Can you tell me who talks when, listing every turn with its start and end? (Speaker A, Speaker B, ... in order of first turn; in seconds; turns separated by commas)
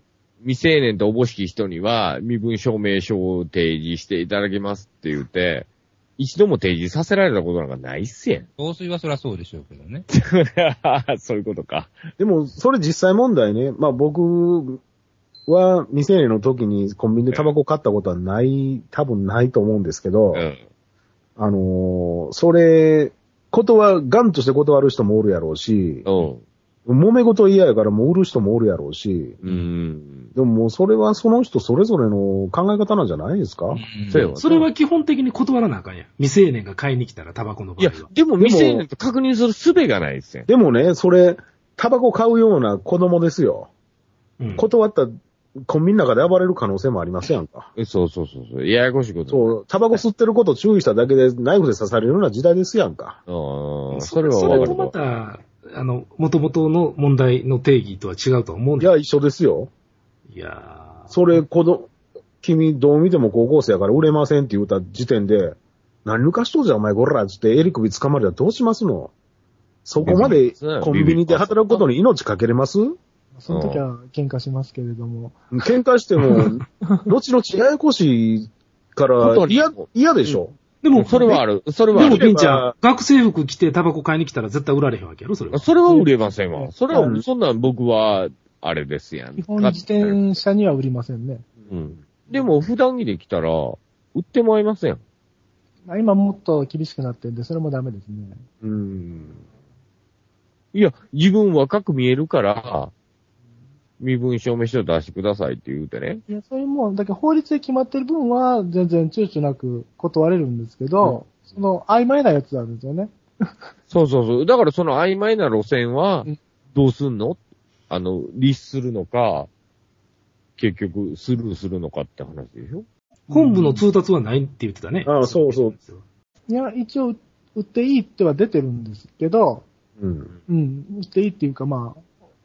Speaker A: 0.4-5.7, Speaker A: 6.2-8.4, Speaker B: 8.6-10.1, Speaker A: 10.1-11.9, Speaker C: 12.2-14.8, Speaker C: 15.5-20.5, Speaker A: 20.3-20.6, Speaker C: 21.4-26.1, Speaker A: 26.1-26.4, Speaker C: 26.9-29.4, Speaker A: 29.4-30.3, Speaker C: 30.4-33.8, Speaker B: 33.7-34.3, Speaker A: 34.1-34.7, Speaker D: 34.2-38.1, Speaker A: 37.8-40.5, Speaker C: 38.4-38.9, Speaker C: 40.5-43.7, Speaker D: 44.4-44.7, Speaker C: 44.5-45.1, Speaker C: 45.7-47.7, Speaker A: 47.8-50.0, Speaker C: 49.3-53.2, Speaker A: 53.3-54.9, Speaker D: 53.9-58.9, Speaker C: 54.5-54.7, Speaker C: 58.8-59.7, Speaker D: 60.3-61.4, Speaker C: 61.1-61.9, Speaker C: 62.4-69.1, Speaker C: 69.8-73.0, Speaker A: 70.0-71.9, Speaker E: 73.3-75.4, Speaker A: 73.5-73.8, Speaker C: 75.5-82.7, Speaker A: 79.2-80.4, Speaker D: 80.8-81.3, Speaker A: 81.0-82.2, Speaker D: 81.9-85.7, Speaker A: 85.5-90.3, Speaker E: 85.9-86.9, Speaker C: 86.9-87.2, Speaker E: 89.4-91.4, Speaker A: 91.7-95.0, Speaker E: 95.9-98.4, Speaker C: 98.6-99.4, Speaker A: 100.7-102.9, Speaker A: 104.0-106.2, Speaker E: 106.3-113.1, Speaker A: 113.9-117.4, Speaker A: 117.9-119.5, Speaker A: 120.6-122.8, Speaker D: 123.3-126.0, Speaker E: 123.3-123.8, Speaker C: 125.1-125.8, Speaker E: 126.5-129.6, Speaker C: 130.0-130.3, Speaker E: 130.5-132.0